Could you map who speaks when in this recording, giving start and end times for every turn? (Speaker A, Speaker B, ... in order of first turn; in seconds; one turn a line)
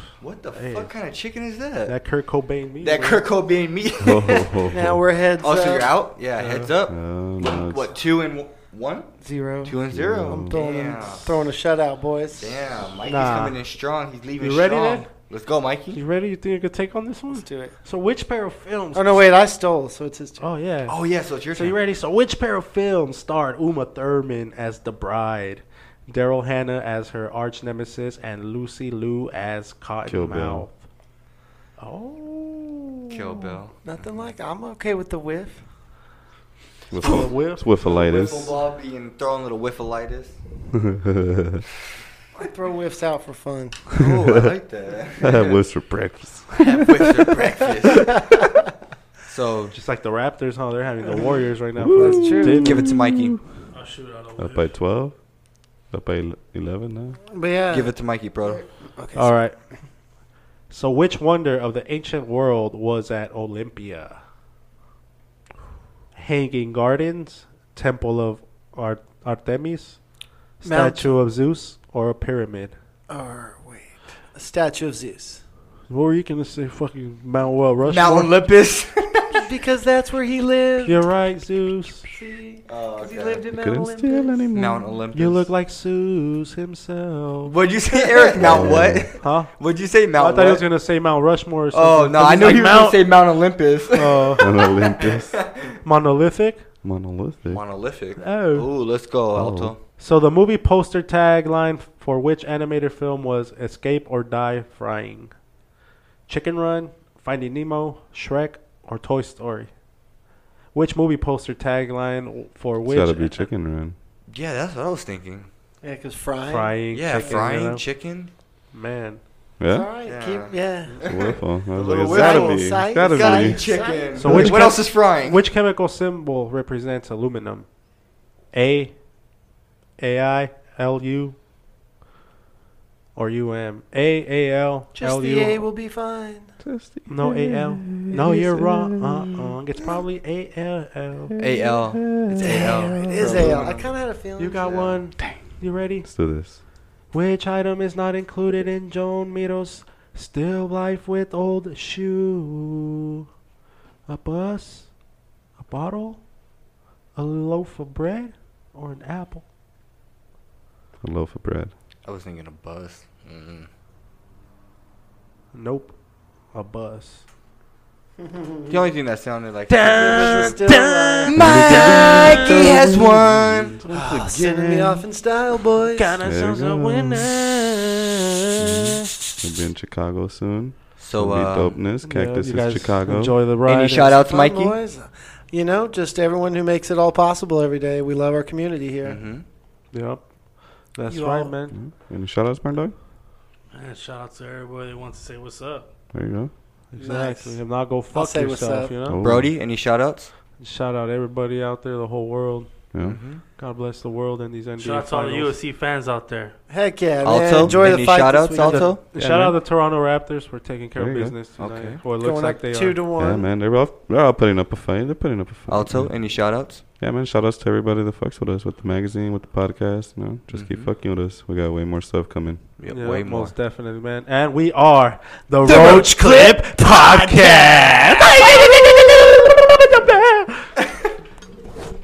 Speaker A: 0.2-1.9
Speaker B: 0.5-0.9
Speaker B: 1.9-3.2
Speaker A: 2.8-4.3
Speaker C: 4.0-5.0
Speaker D: 4.3-5.9
Speaker A: 5.4-9.1
Speaker B: 6.3-6.7
Speaker C: 6.9-8.0
Speaker D: 9.2-12.8
Speaker A: 9.6-11.4
Speaker C: 9.9-10.6
Speaker A: 12.3-16.0
Speaker B: 13.0-13.6
Speaker B: 14.4-15.1
Speaker B: 15.9-19.2
Speaker D: 17.3-17.8
Speaker D: 18.9-20.5
Speaker B: 20.4-30.8
Speaker A: 20.9-21.8
Speaker C: 30.1-30.6
Speaker B: 31.8-33.5
Speaker A: 33.1-34.3
Speaker D: 33.8-35.6
Speaker C: 36.9-38.5
Speaker B: 37.0-37.7
Speaker A: 37.7-40.4
Speaker C: 40.8-41.6
Speaker D: 42.3-43.9
Speaker A: 43.9-45.6
Speaker C: 44.1-44.5
Speaker C: 45.2-47.3
Speaker A: 46.5-48.1
Speaker A: 49.3-49.8
Speaker B: 49.7-52.8
Speaker C: 51.8-53.4
Speaker D: 52.0-52.8
Speaker A: 52.5-53.4
Speaker E: 53.7-54.8
Speaker C: 54.4-55.2
Speaker C: 55.9-57.2
Speaker D: 57.3-59.5
Speaker A: 57.7-58.6
Speaker B: 59.1-59.6
Speaker B: 60.7-64.2
Speaker B: 66.1-70.0
Speaker B: 70.6-72.7
Speaker D: 70.6-71.1
Speaker D: 73.1-75.4
Speaker B: 75.9-78.4
Speaker A: 77.8-79.5
Speaker D: 79.3-81.1
Speaker B: 80.8-82.0
Speaker D: 82.0-84.5
Speaker A: 82.7-83.5
Speaker C: 83.5-85.0
Speaker A: 84.5-85.5
Speaker B: 85.1-87.5
Speaker A: 87.4-90.7
Speaker D: 88.2-88.5
Speaker C: 88.4-89.1
Speaker B: 89.2-89.5
Speaker B: 90.1-93.2
Speaker A: 91.7-95.8
Speaker B: 93.9-94.5
Speaker C: 94.4-95.4
Speaker B: 95.8-96.6
Speaker C: 96.8-97.7
Speaker A: 97.5-99.8
Speaker B: 98.2-98.7
Speaker C: 99.3-99.7
Speaker B: 100.0-105.3
Speaker B: 106.3-109.7
Speaker B: 110.7-113.5
Speaker C: 112.8-114.0
Speaker A: 114.3-115.5
Speaker D: 115.8-117.4
Speaker B: 116.4-117.8
Speaker A: 116.9-118.3
Speaker B: 118.7-119.2
Speaker C: 119.6-119.9
Speaker D: 119.7-121.0
Speaker A: 120.0-125.4
Speaker C: 121.0-123.7
Speaker D: 122.0-124.6
Speaker B: 124.2-127.7
Speaker B: 128.5-128.9
Speaker B: 130.0-131.3
Speaker B: 133.1-135.6
Speaker D: 135.0-136.6
Speaker C: 136.6-139.5
Speaker B: 137.1-141.4
Speaker C: 141.3-142.8
Speaker A: 141.4-143.9
Speaker D: 142.3-144.8
Speaker B: 144.4-146.1
Speaker A: 144.6-145.0
Speaker C: 145.2-145.4
Speaker C: 146.0-146.6
Speaker B: 147.1-153.2
Speaker B: 154.1-154.9
Speaker B: 155.6-156.2
Speaker B: 157.2-159.4
Speaker C: 161.0-161.7
Speaker A: 162.0-163.7
Speaker B: 165.5-165.9
Speaker B: 166.5-167.2
Speaker D: 168.2-168.8
Speaker A: 168.7-170.7
Speaker B: 169.7-172.8
Speaker D: 169.9-171.3
Speaker A: 171.3-173.8
Speaker C: 171.3-174.9
Speaker B: 173.9-174.5
Speaker D: 173.9-176.1
Speaker B: 175.9-179.1
Speaker C: 176.2-177.3
Speaker C: 178.6-183.4
Speaker A: 181.0-181.9
Speaker B: 181.9-184.1
Speaker A: 183.6-184.8
Speaker D: 184.1-189.2
Speaker A: 189.0-189.4
Speaker B: 189.9-190.2
Speaker B: 190.9-191.8
Speaker D: 191.1-191.5
Speaker C: 191.7-192.9
Speaker E: 193.7-195.9
Speaker C: 196.1-196.5
Speaker B: 196.9-199.2
Speaker D: 197.0-198.9
Speaker C: 199.1-199.6
Speaker A: 199.2-200.3
Speaker B: 200.6-202.8
Speaker C: 202.9-203.2
Speaker A: 203.0-203.4
Speaker B: 203.6-205.6
Speaker E: 204.8-206.6
Speaker D: 206.7-208.9
Speaker A: 207.2-209.0
Speaker C: 207.6-207.9
Speaker B: 208.6-213.1
Speaker C: 209.1-209.6
Speaker C: 210.9-211.4
Speaker A: 211.5-212.0
Speaker D: 212.1-213.5
Speaker C: 213.2-222.7
Speaker A: 215.7-216.8
Speaker A: 220.5-220.9
Speaker A: 222.8-223.5
Speaker B: 222.8-230.8
Speaker D: 225.6-227.9